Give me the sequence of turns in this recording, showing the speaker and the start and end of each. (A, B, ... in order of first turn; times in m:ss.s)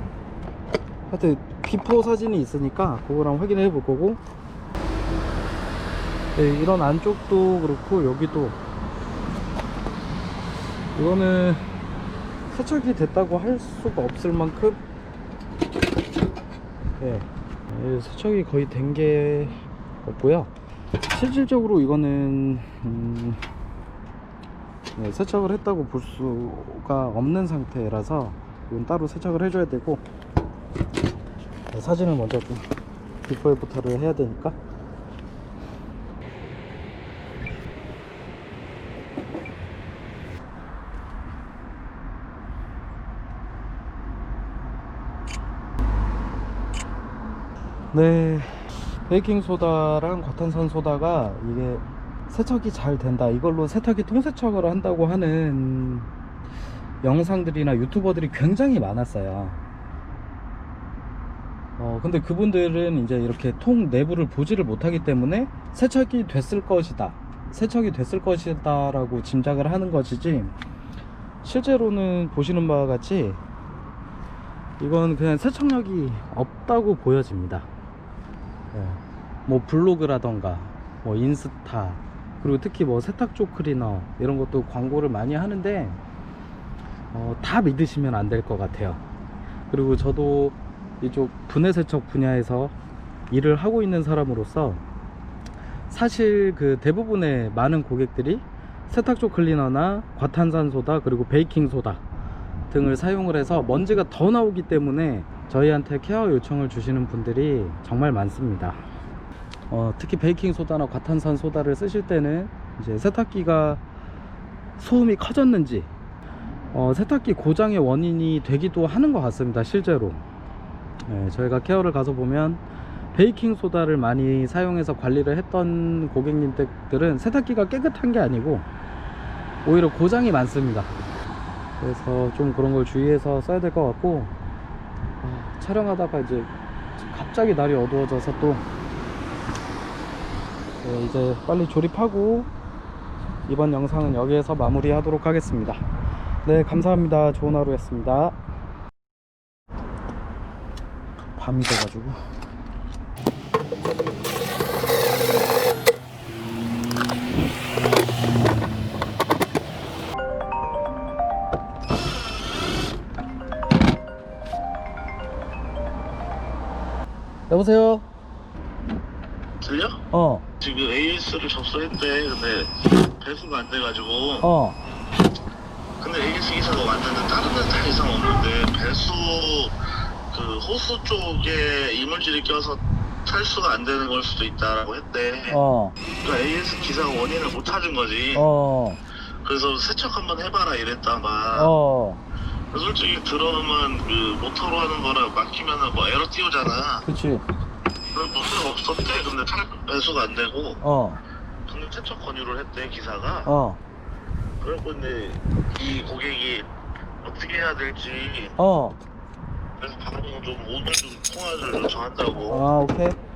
0:01.1-0:04.2 A
0:06.4-0:08.6 A
0:10.9-0:11.6 A
0:12.5-0:14.8 A
0:17.0-0:20.5 A
0:21.1-0:23.4 A
0:25.0-0:30.0 A
0:31.7-0:32.6 A
0:33.2-0:34.6 A
0:47.9-0:56.1 A
0:57.0-0:59.6 A
1:01.8-1:10.6 A
1:11.4-1:13.4 A
1:14.8-1:17.7 A
1:18.7-1:26.0 A
1:27.1-1:29.0 A
1:29.7-1:32.7 A
1:33.3-1:34.8 A
1:35.9-1:42.0 A
1:42.7-1:48.8 A
1:49.7-1:53.8 A
1:54.8-1:55.9 A
1:56.7-2:00.2 A
2:01.1-2:08.7 A
2:09.6-2:10.9 A
2:11.8-2:14.4 A
2:15.2-2:18.7 A
2:20.8-2:22.5 A
2:23.5-2:25.8 A
2:26.4-2:28.4 A
2:31.4-2:32.2 A
2:47.5-2:48.1 A
2:49.6-2:50.0 B
2:50.1-2:50.5 A
2:50.6-2:54.5 B
2:54.4-2:54.8 A
2:56.0-2:59.8 B
3:00.3-3:05.6 B
3:05.5-3:06.0 A
3:06.2-3:08.4 B
3:08.3-3:09.0 A
3:09.4-3:11.7 B
3:11.5-3:12.2 A
3:12.7-3:17.0 B
3:17.0-3:17.5 A
3:18.1-3:20.8 B
3:20.8-3:21.2 A
3:21.7-3:23.5 B
3:23.4-3:23.8 A
3:24.6-3:26.7 B
3:27.2-3:28.6 B
3:28.6-3:29.0 A
3:29.8-3:32.7 B
3:32.4-3:33.2 A